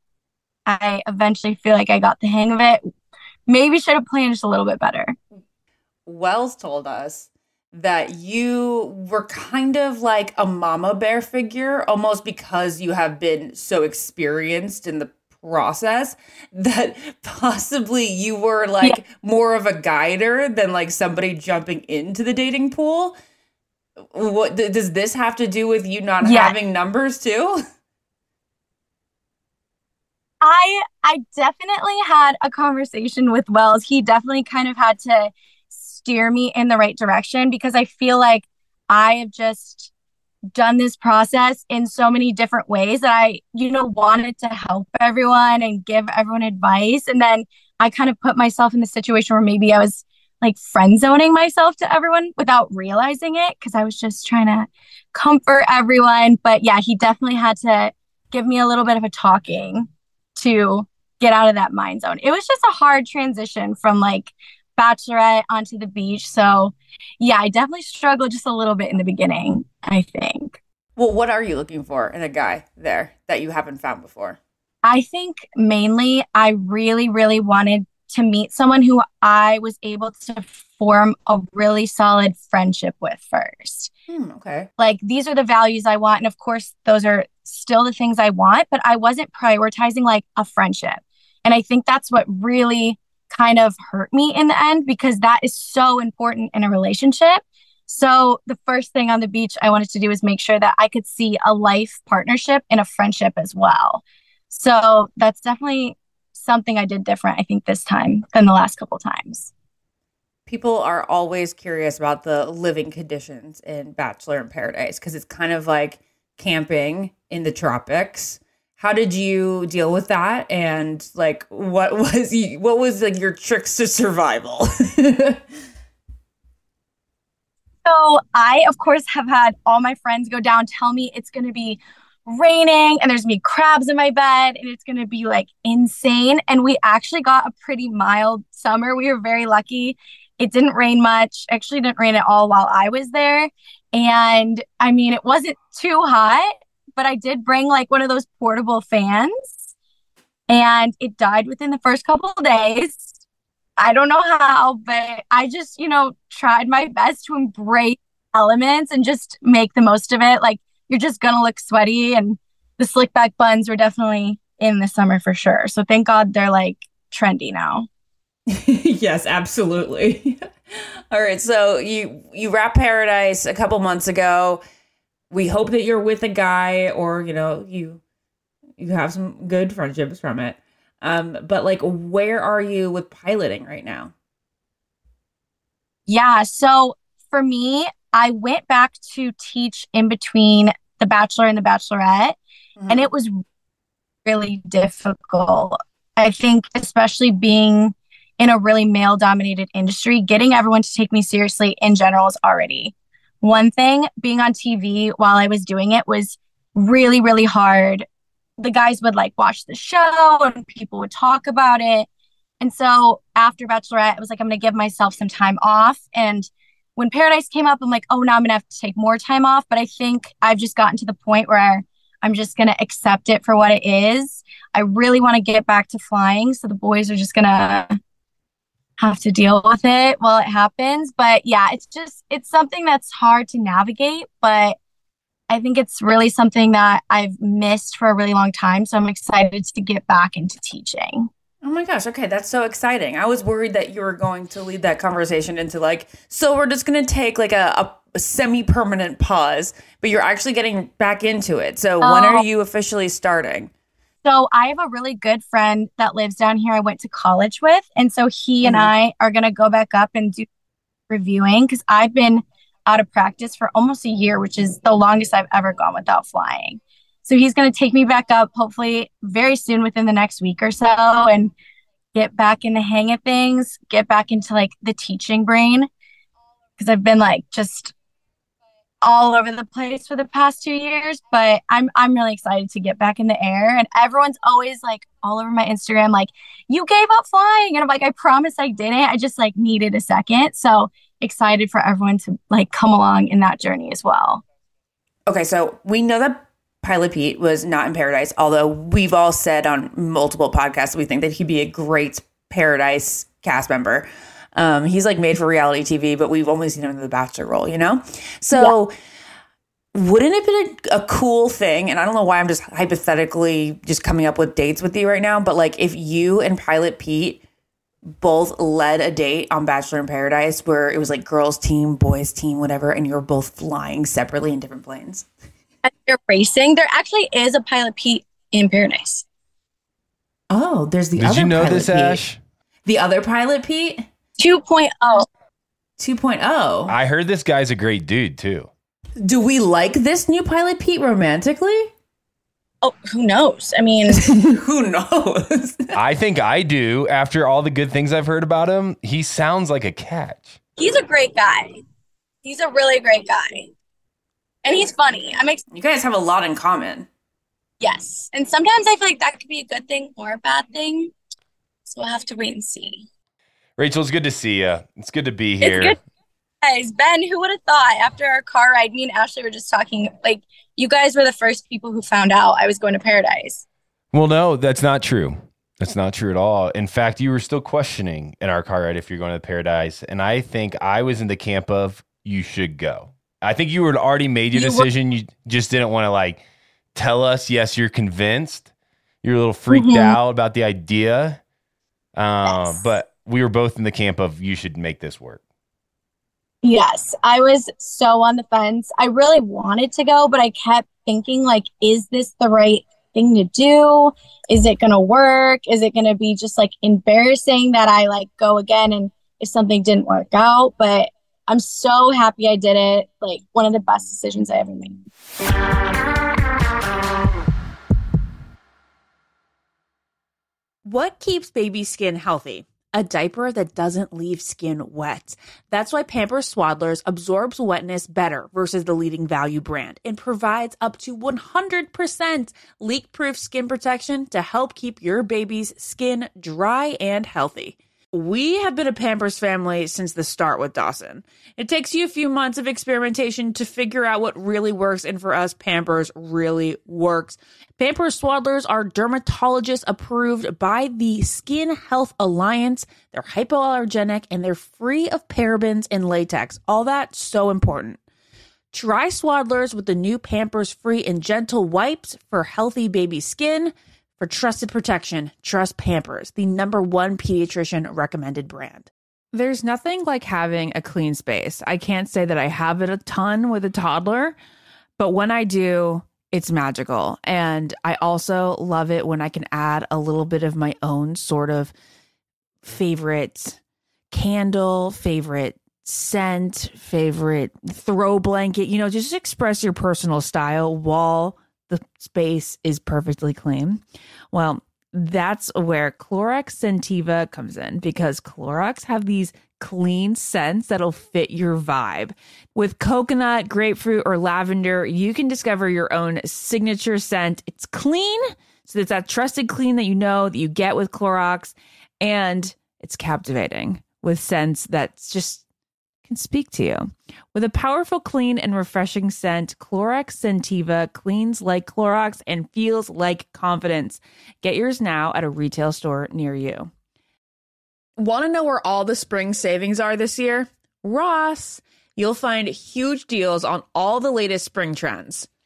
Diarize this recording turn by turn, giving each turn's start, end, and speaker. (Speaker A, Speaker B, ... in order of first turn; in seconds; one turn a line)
Speaker A: 0.7-2.8
Speaker A: 3.5-5.2
Speaker B: 6.0-23.1
Speaker B: 24.1-27.6
Speaker A: 26.2-26.5
Speaker A: 30.4-39.9
Speaker A: 40.5-70.6
Speaker B: 71.0-74.4
Speaker A: 74.8-83.9
Speaker B: 84.1-84.7
Speaker A: 84.8-109.5
Speaker B: 110.5-125.4
Speaker A: 127.8-149.6
Speaker A: 150.5-153.2
Speaker A: 153.8-167.9
Speaker B: 168.5-170.4
Speaker B: 171.1-174.6
Speaker B: 175.3-178.0
Speaker B: 178.8-184.1
Speaker A: 186.1-192.4
Speaker B: 192.8-193.1
Speaker A: 192.9-193.4
Speaker A: 194.2-208.0
Speaker A: 208.6-212.1
Speaker A: 212.6-227.9
Speaker A: 229.0-234.8
Speaker A: 235.5-241.3
Speaker B: 241.6-253.7
Speaker A: 252.0-252.4
Speaker A: 254.2-260.4
Speaker B: 258.6-258.9
Speaker A: 261.1-271.5
Speaker A: 272.1-275.9
Speaker A: 276.8-277.9
Speaker A: 279.0-294.4
Speaker B: 295.3-308.9
Speaker B: 309.9-317.4
Speaker B: 318.2-325.2
Speaker A: 325.8-329.2
Speaker B: 330.5-332.2
Speaker C: 331.2-332.4
Speaker B: 332.9-334.0
Speaker A: 334.4-335.3
Speaker B: 336.0-336.9
Speaker C: 336.9-338.7
Speaker B: 339.2-341.9
Speaker A: 342.8-344.2
Speaker B: 344.1-346.0
Speaker C: 345.9-350.6
Speaker A: 350.8-351.8
Speaker A: 352.4-353.7
Speaker A: 354.6-355.6
Speaker B: 355.7-357.1
Speaker A: 357.8-361.1
Speaker A: 361.9-363.0
Speaker C: 363.8-366.0
Speaker A: 365.6-365.9
Speaker A: 366.6-373.6
Speaker C: 374.1-386.4
Speaker A: 384.5-384.9
Speaker C: 386.9-388.7
Speaker C: 389.2-391.4
Speaker A: 389.7-390.2
Speaker C: 392.1-395.4
Speaker A: 392.5-392.8
Speaker A: 396.6-415.0
Speaker B: 420.8-458.0
Speaker B: 458.7-474.3
Speaker B: 475.0-481.7
Speaker B: 482.6-483.6
Speaker B: 484.1-515.4
Speaker B: 516.1-526.7
Speaker B: 528.0-535.3